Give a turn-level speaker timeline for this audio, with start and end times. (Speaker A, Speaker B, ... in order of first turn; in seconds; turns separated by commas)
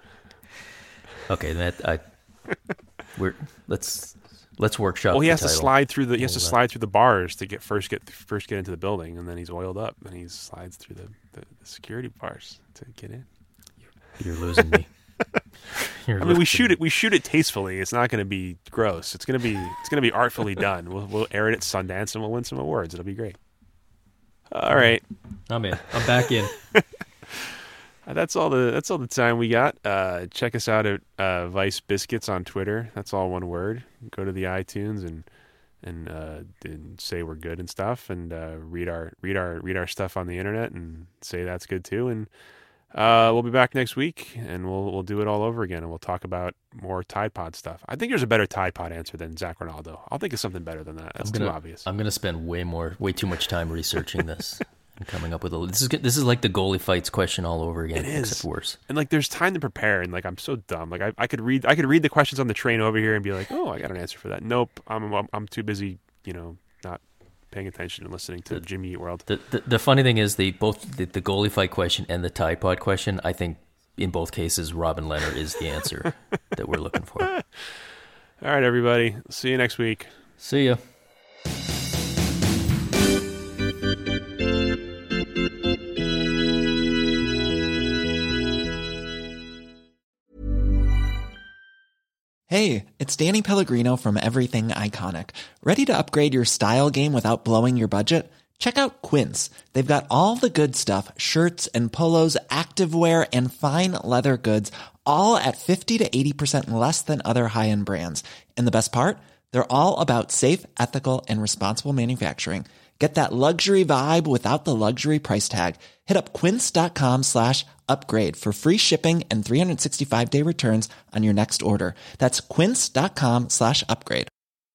Speaker A: 1.3-2.0, Speaker A: 3.1-6.5, Speaker B: 5.1-13.2, Speaker A: 14.2-14.9, Speaker A: 15.8-16.7, Speaker B: 16.2-23.4, Speaker B: 24.5-25.0, Speaker A: 25.5-26.5, Speaker B: 28.1-35.2, Speaker B: 35.8-42.3, Speaker B: 42.9-51.9, Speaker A: 51.2-58.8, Speaker B: 57.9-69.2, Speaker A: 69.2-77.3, Speaker B: 78.4-80.1, Speaker A: 80.4-80.8, Speaker C: 92.5-124.3